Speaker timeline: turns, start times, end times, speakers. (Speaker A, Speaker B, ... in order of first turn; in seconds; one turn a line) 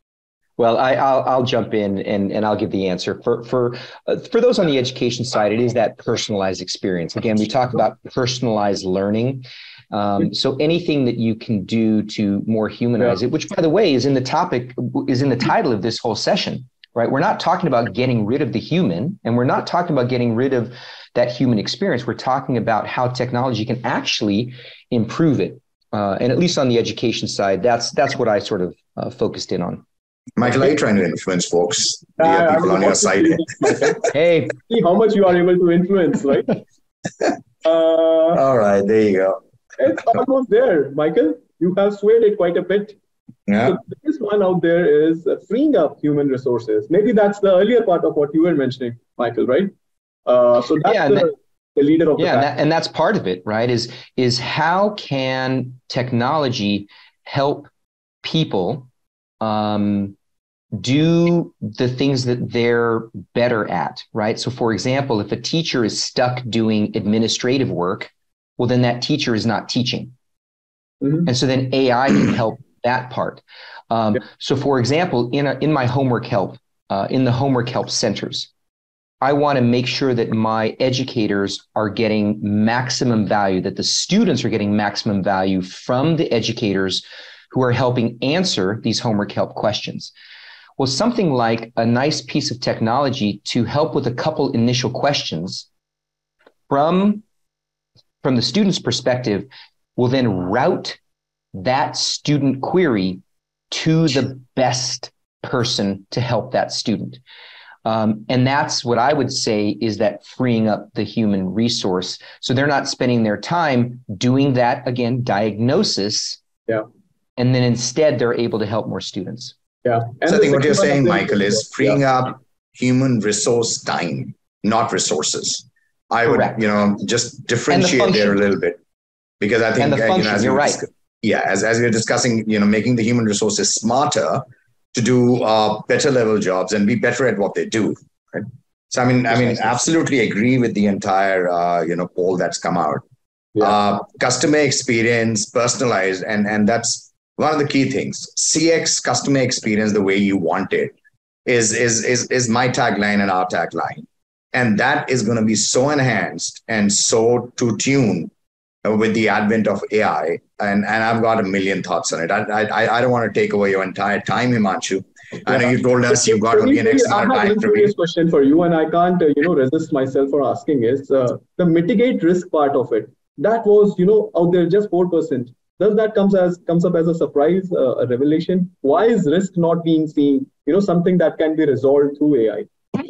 Speaker A: 0.6-29.8
Speaker B: 30.4-34.0
Speaker C: 32.2-34.1
Speaker A: 34.1-34.6
Speaker C: 34.6-36.6
Speaker C: 37.6-38.4
Speaker B: 38.3-39.4
Speaker C: 39.8-43.0
Speaker B: 43.5-43.8
Speaker C: 43.6-49.7
Speaker C: 50.3-52.5
Speaker A: 50.8-51.3
Speaker A: 52.2-57.7
Speaker A: 58.2-58.9
Speaker A: 59.4-60.1
Speaker A: 60.8-70.1
Speaker A: 71.2-78.5
Speaker A: 79.2-90.1
Speaker A: 90.8-95.7
Speaker A: 96.7-97.2
Speaker A: 98.2-101.0
Speaker A: 101.5-107.2
Speaker A: 107.8-116.4
Speaker A: 117.4-119.5
Speaker C: 119.8-122.0
Speaker B: 120.3-128.8
Speaker A: 126.3-126.6
Speaker A: 127.7-128.4
Speaker B: 129.4-143.0
Speaker A: 129.8-130.8
Speaker B: 143.6-150.9
Speaker B: 151.4-158.3
Speaker B: 158.8-167.9
Speaker C: 165.5-182.7